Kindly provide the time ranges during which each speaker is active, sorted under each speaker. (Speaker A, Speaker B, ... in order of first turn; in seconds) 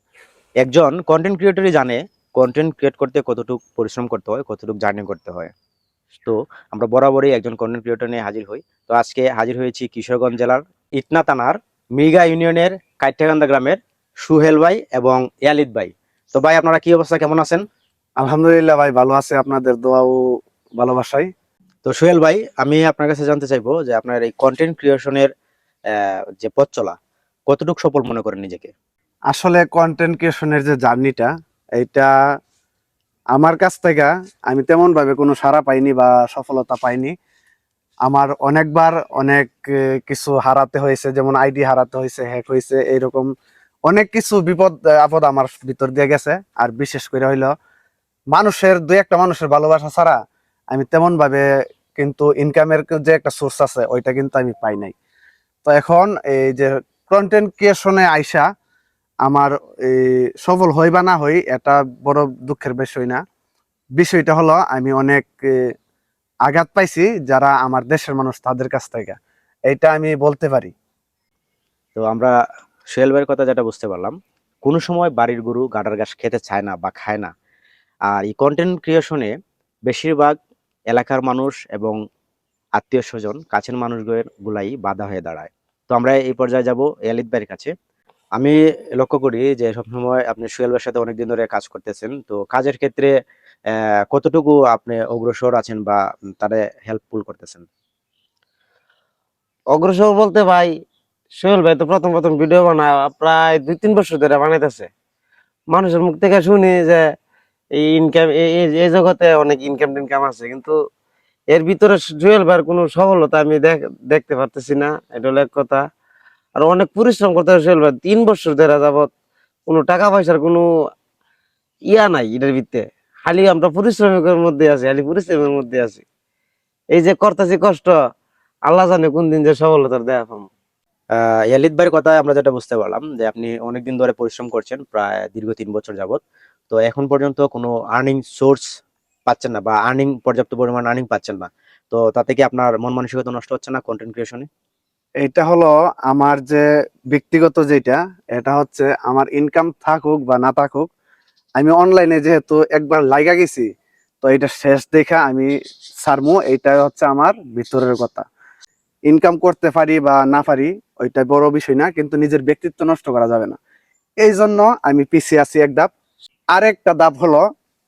Speaker A: 0.6-5.5, 6.2-17.6, 21.9-25.3, 26.4-26.9, 27.5-28.7, 72.0-72.4, 72.9-74.2, 74.7-77.3, 78.1-79.3, 79.9-80.4, 80.9-82.0, 82.8-87.7, 88.4-93.1, 93.7-97.7, 131.2-138.7, 139.3-144.5
Speaker B: 18.2-20.2, 20.8-21.3, 29.3-32.1, 33.4-37.1, 38.1-43.3, 43.9-47.5, 48.3-50.2, 50.7-51.5, 52.0-54.9, 55.6-58.5, 59.2-63.2, 64.0-65.6, 66.5-69.2, 69.7-70.7, 145.2-150.9, 151.6-153.7, 154.2-155.5, 156.0-158.2, 159.1-163.6, 164.2-165.9, 166.6-167.4
Speaker C: 99.7-100.7, 101.4-104.9, 105.7-107.0, 107.8-110.7, 111.5-115.8, 116.6-119.1, 119.7-120.7, 121.9-126.0, 126.9-127.9, 128.7-130.5